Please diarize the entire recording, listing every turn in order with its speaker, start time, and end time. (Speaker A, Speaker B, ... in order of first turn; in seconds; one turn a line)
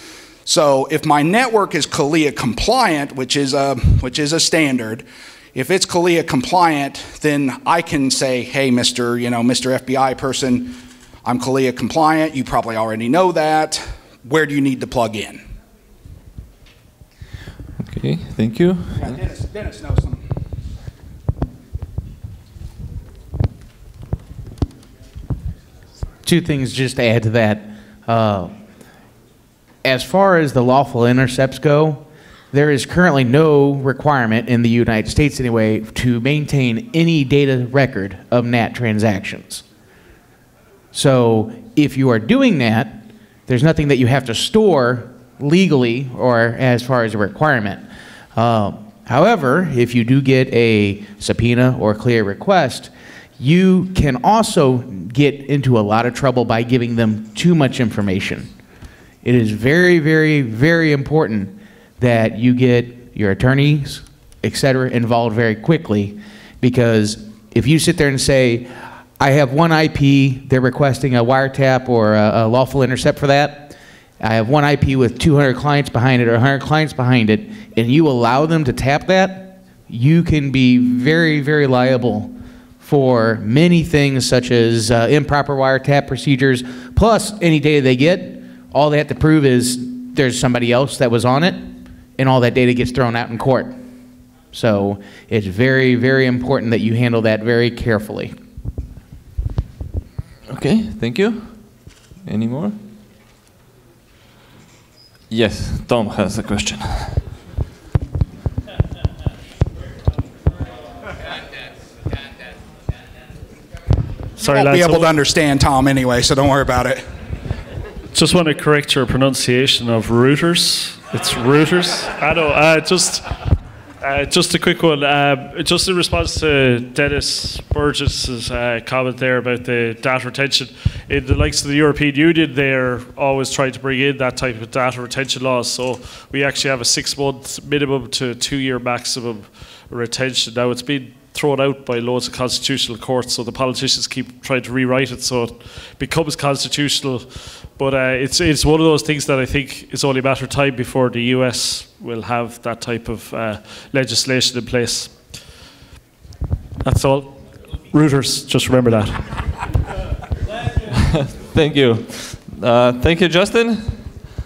Speaker A: 0.5-15.4
Speaker B: 17.8-19.1
Speaker A: 18.9-20.2
Speaker C: 26.2-28.5
Speaker C: 29.8-39.6
Speaker C: 40.9-47.8
Speaker C: 48.4-58.5
Speaker C: 59.2-93.8
Speaker C: 94.5-98.3
Speaker B: 100.5-101.6
Speaker B: 102.2-102.8
Speaker B: 105.3-107.2
Speaker D: 114.4-115.1
Speaker A: 114.4-117.0
Speaker D: 118.1-123.2
Speaker D: 124.0-155.1
Speaker D: 156.8-157.4
Speaker D: 157.9-159.2
Speaker B: 160.9-164.0